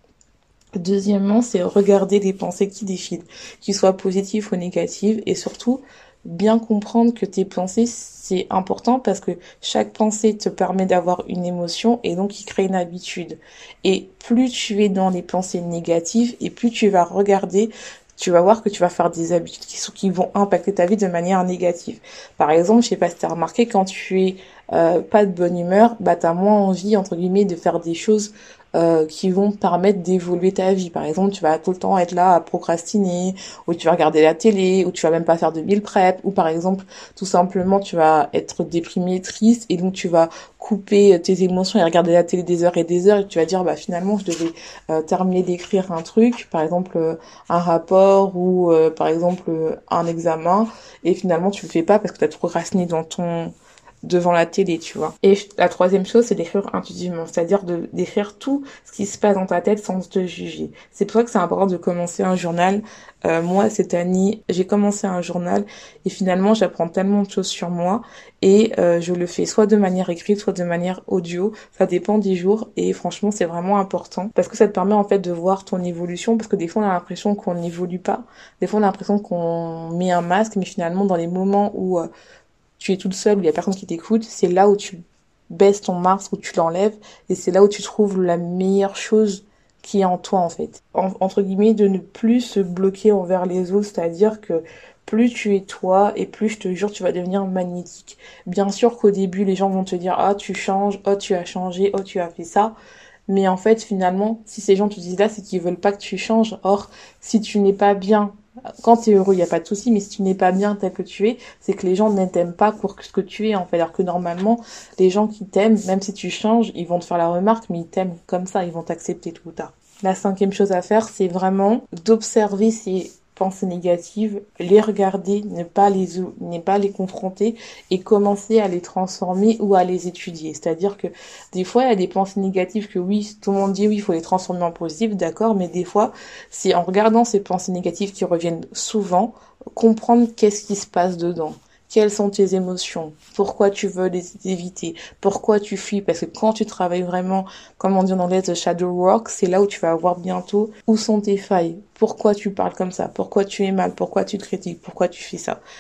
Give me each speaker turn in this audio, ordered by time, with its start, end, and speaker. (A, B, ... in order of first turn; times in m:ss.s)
0:00.8-1:22.1 A
1:22.8-1:25.0 A
1:25.5-1:42.7 A
1:43.3-2:35.6 A